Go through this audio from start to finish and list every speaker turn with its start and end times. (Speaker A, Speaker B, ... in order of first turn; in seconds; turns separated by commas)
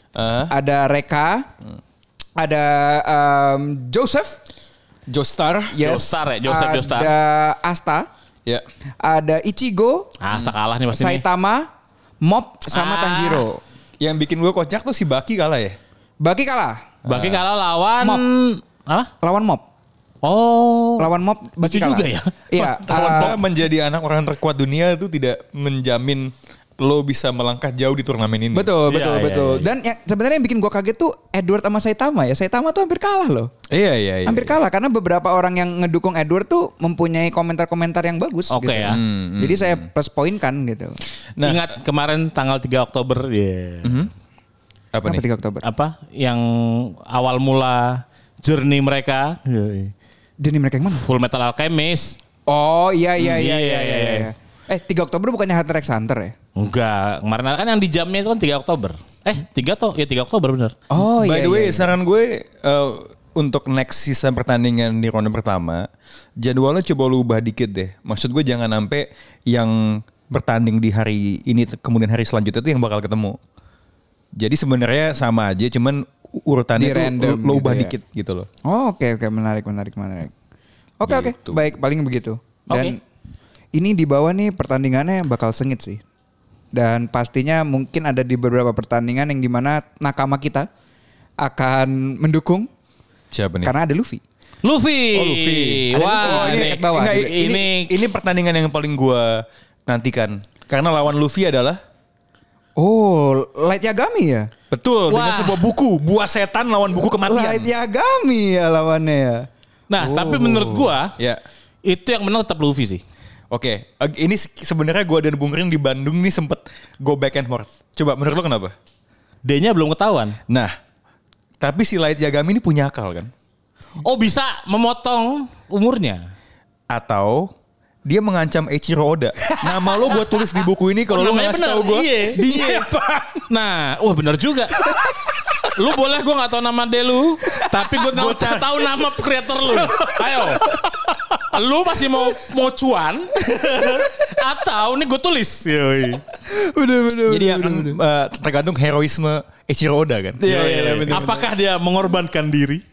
Speaker A: 0.1-0.5, Speaker B: 0.5-1.5, Speaker B: 2.4-4.4, Speaker A: 5.1-5.8, Speaker B: 5.7-8.1, Speaker C: 5.8-7.1, Speaker B: 9.0-10.1, Speaker C: 10.2-11.2, Speaker B: 10.9-11.7, Speaker B: 12.2-13.6, Speaker C: 12.7-13.5, Speaker A: 14.0-15.8, Speaker B: 16.2-16.9, Speaker A: 17.0-17.4, Speaker C: 17.1-19.1, Speaker B: 19.2-19.6, Speaker C: 20.2-21.1, Speaker B: 21.0-23.4, Speaker C: 21.6-22.6, Speaker A: 22.6-28.7, Speaker B: 28.5-33.5, Speaker C: 28.9-29.7, Speaker A: 33.7-34.6, Speaker B: 34.2-41.0, Speaker C: 38.5-39.0, Speaker A: 38.8-39.8, Speaker A: 41.4-41.7, Speaker C: 41.4-44.0, Speaker A: 43.8-44.1, Speaker A: 44.9-45.2, Speaker B: 45.0-45.6, Speaker C: 45.6-49.9, Speaker B: 50.4-51.0, Speaker C: 50.9-52.2, Speaker B: 52.5-56.3, Speaker C: 53.2-54.3, Speaker C: 56.5-60.7, Speaker B: 60.9-61.9, Speaker A: 61.1-65.9, Speaker A: 66.4-73.4, Speaker A: 74.4-78.5, Speaker B: 76.8-77.9, Speaker B: 78.7-80.3, Speaker B: 81.0-83.0, Speaker A: 81.0-81.6, Speaker B: 83.7-86.0, Speaker B: 86.7-90.7, Speaker B: 91.4-92.7, Speaker A: 93.3-93.7, Speaker B: 93.6-94.2, Speaker C: 94.6-97.9, Speaker A: 95.1-101.8, Speaker B: 95.9-97.3, Speaker B: 102.8-104.5, Speaker A: 104.7-107.7, Speaker C: 105.1-105.7, Speaker B: 107.1-109.5, Speaker C: 109.9-111.2, Speaker B: 110.0-110.9, Speaker C: 111.8-113.0, Speaker A: 113.5-118.7, Speaker C: 119.4-120.4, Speaker A: 120.5-120.7, Speaker A: 121.6-123.3, Speaker C: 124.0-126.2, Speaker A: 126.9-127.5, Speaker A: 128.1-133.5, Speaker C: 129.8-130.4, Speaker C: 131.1-132.9, Speaker C: 133.5-134.8, Speaker C: 135.6-140.7, Speaker A: 137.9-138.8, Speaker A: 139.7-141.1, Speaker C: 141.4-146.2, Speaker B: 146.5-148.0, Speaker A: 147.2-151.3, Speaker B: 150.4-151.5, Speaker C: 150.4-152.8